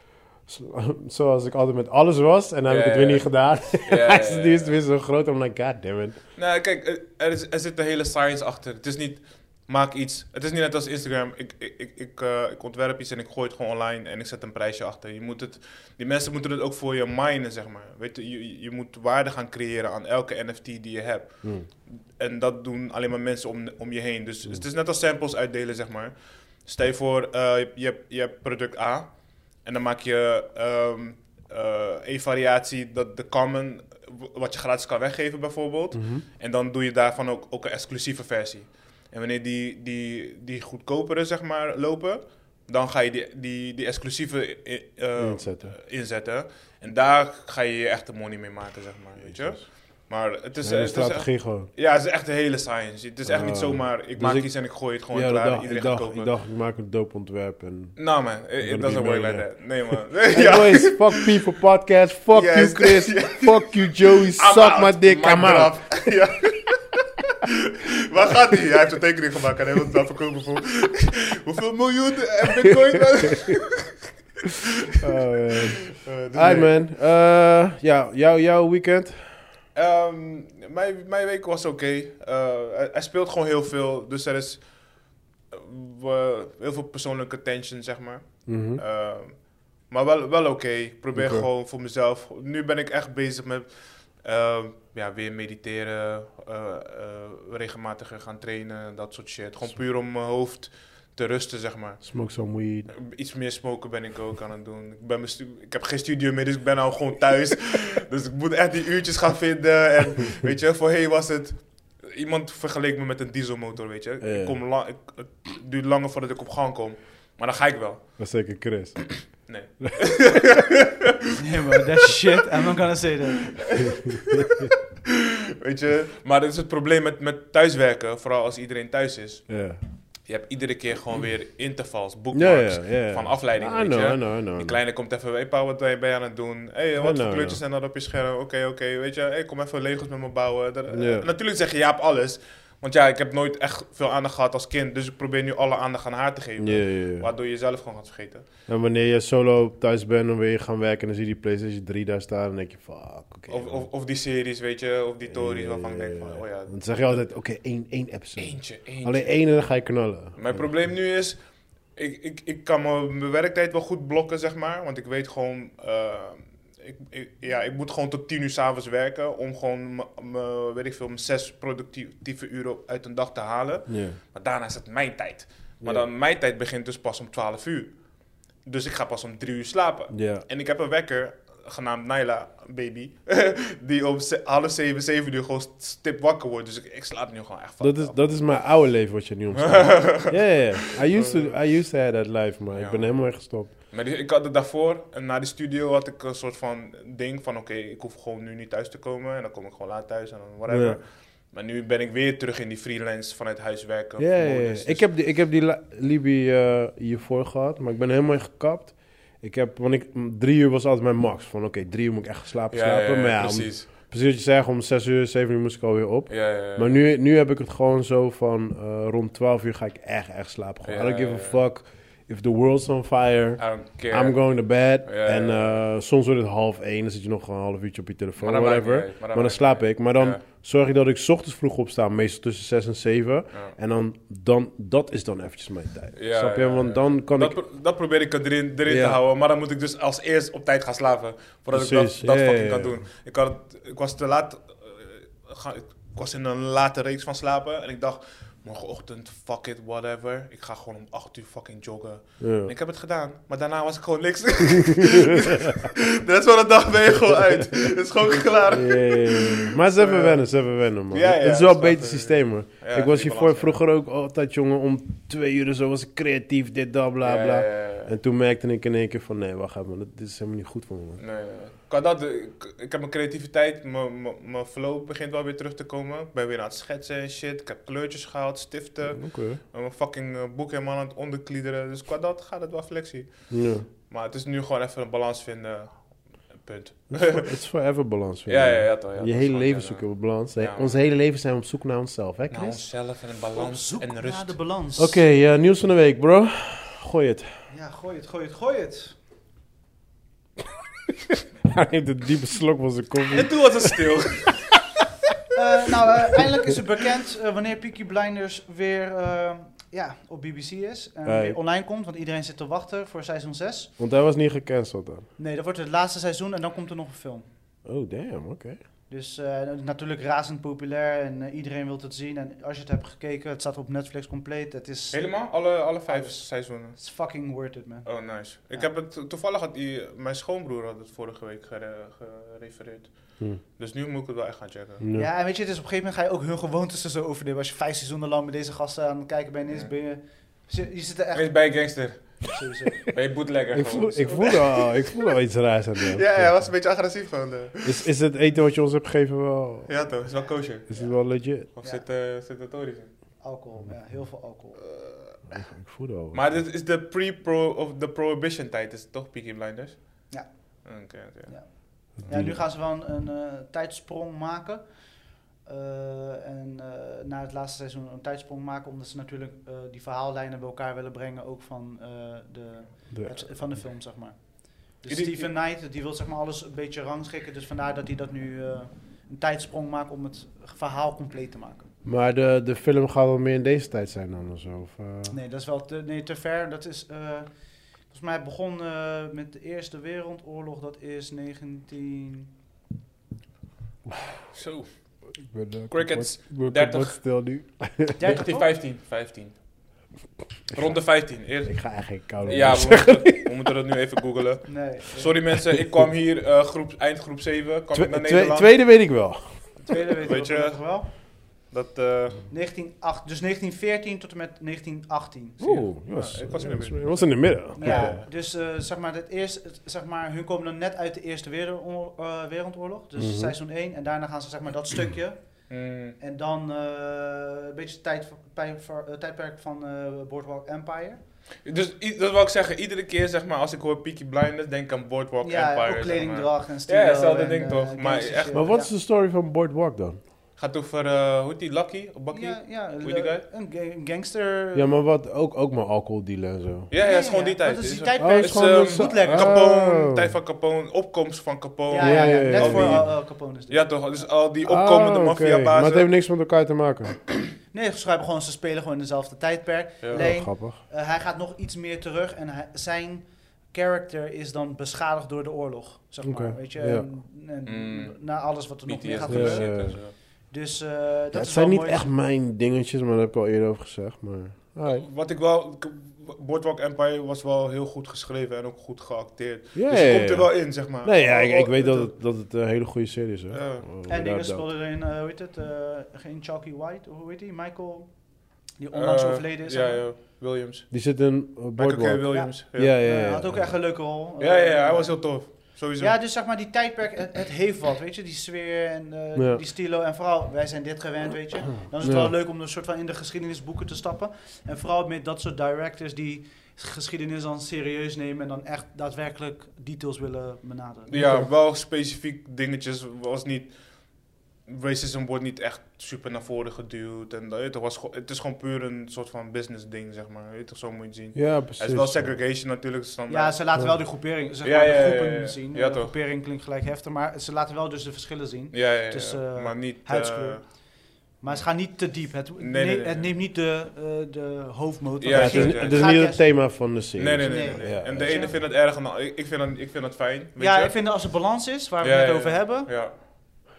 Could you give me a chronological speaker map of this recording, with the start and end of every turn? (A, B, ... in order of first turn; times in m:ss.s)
0:00.5-0:06.2 A
0:02.7-0:04.8 B
0:06.4-0:56.3 B
0:35.9-0:36.2 A
0:45.2-0:45.8 A
0:49.3-0:49.6 A
0:50.6-0:51.7 A
0:53.2-0:54.5 A
0:55.1-0:58.0 A
0:58.0-1:01.4 B
0:58.6-1:05.8 A
1:02.3-1:15.2 B
1:12.5-1:13.6 A
1:15.0-1:19.4 A
1:15.9-1:16.8 B
1:19.8-1:24.7 B
1:25.5-1:42.1 B
1:28.5-1:28.8 A
1:31.1-1:31.5 A
1:42.0-1:42.9 A
1:42.9-1:58.4 B
1:54.2-1:54.6 A
1:58.2-1:59.6 A
1:59.2-2:01.0 B
2:01.4-2:03.8 C
2:03.7-2:09.5 B
2:09.5-2:09.8 A
2:10.3-2:28.5 B
2:12.3-2:14.8 A
2:17.0-2:17.6 A
2:20.9-2:21.3 A
2:26.6-2:27.3 A
2:28.7-2:33.8 A
2:33.5-2:37.2 B
2:35.3-2:40.7 A
2:38.4-2:39.3 B
2:40.4-2:41.4 B
2:42.0-2:58.0 B
2:53.9-2:54.2 A
2:55.8-2:56.1 A
2:58.6-3:08.6 B
3:00.1-3:00.4 A
3:07.8-3:13.7 A
3:09.5-3:11.6 B
3:12.7-3:25.0 B
3:20.7-3:21.0 A
3:24.2-3:57.6 A
3:32.7-3:33.9 B
3:36.3-3:37.0 B
3:40.8-3:41.6 B
3:43.6-3:45.8 B
3:48.4-3:50.4 B
3:56.2-4:20.4 B
3:58.9-3:59.2 A
4:01.7-4:03.0 A
4:12.4-4:12.7 A
4:14.8-4:15.8 A
4:18.7-4:31.2 A
4:21.1-4:23.8 B
4:27.2-4:28.1 B
4:31.2-4:47.5 B
4:39.1-4:39.6 A
4:43.5-4:43.9 A
4:47.1-4:52.9 A
4:48.5-4:51.0 B
4:52.5-4:54.6 B
4:53.5-4:55.2 C
4:55.0-4:57.5 A
4:57.7-4:59.2 C
5:01.3-5:04.0 A
5:03.3-5:04.8 B
5:05.5-5:13.9 C
5:11.2-5:11.6 A
5:14.0-5:15.3 A
5:15.4-5:17.5 C
5:17.8-5:18.8 A
5:19.1-5:25.4 C
5:25.1-5:27.0 B
5:26.1-5:28.1 C
5:28.0-5:35.0 B
5:35.0-5:35.3 A
5:35.1-5:41.7 C
5:41.3-5:45.0 B
5:42.5-5:43.1 C
5:43.7-5:46.7 A
5:46.1-5:48.0 B
5:47.8-5:50.0 A
5:49.9-5:51.0 B
5:50.9-5:51.7 A
5:50.9-5:51.2 C
5:51.7-5:53.1 B
5:51.8-5:52.0 C
5:53.4-5:54.8 C
5:54.8-5:55.6 B
5:55.5-5:56.6 A
5:56.3-6:02.4 B
6:00.3-6:21.9 C
6:02.2-6:02.6 A
6:13.1-6:13.6 A
6:15.1-6:15.5 B
6:22.0-6:25.4 A
6:25.3-6:27.5 C
6:28.1-6:32.5 C
6:34.5-6:34.9 B
6:35.4-6:38.3 A
6:35.9-6:37.2 B
6:38.2-6:38.7 C
6:38.2-6:39.6 B
6:40.7-6:41.0 A
6:40.7-6:49.0 B
6:41.6-6:43.6 A
6:44.7-6:45.4 C
6:47.9-6:49.9 A
6:49.9-6:51.1 C
6:49.9-6:52.5 B
6:52.5-6:55.8 C
6:55.6-6:58.2 A
6:55.6-6:58.3 B
6:57.8-7:11.2 C
7:03.2-7:03.6 A
7:05.7-7:06.2 B
7:11.6-7:18.7 B
7:15.4-7:18.9 C
7:18.5-7:20.2 A
7:20.6-7:23.4 B
7:22.3-7:24.9 C
7:24.8-7:26.9 A
7:26.9-7:36.1 B
7:27.0-7:29.6 C
7:28.2-7:30.4 A
7:31.9-7:33.9 C
7:32.0-7:33.1 A
7:34.6-7:37.2 A
7:37.7-7:52.1 C
7:40.1-7:40.8 A
7:46.2-7:47.1 A
7:47.7-7:50.1 B
7:49.3-7:50.0 A
7:51.3-7:55.1 A
7:54.8-8:02.1 B
7:59.8-8:04.7 A
8:03.5-8:03.8 B
8:04.1-8:08.2 C
8:08.8-8:10.0 C
8:08.9-8:10.9 B
8:10.9-8:13.7 A
8:11.8-8:13.0 B
8:12.3-8:31.1 C
8:14.4-8:16.2 B
8:19.4-8:19.6 A
8:22.0-8:22.3 A
8:31.1-8:33.8 B
8:31.1-8:31.5 A
8:34.7-8:43.6 B
8:41.4-8:42.4 A
8:43.3-8:56.4 C
8:44.6-8:46.2 B
8:48.7-8:50.7 B
8:51.5-8:53.3 B
8:55.2-8:56.3 B
8:55.3-8:58.5 A
8:57.2-9:01.2 B
8:57.4-8:58.6 C
9:00.6-9:02.9 C
9:02.0-9:03.2 B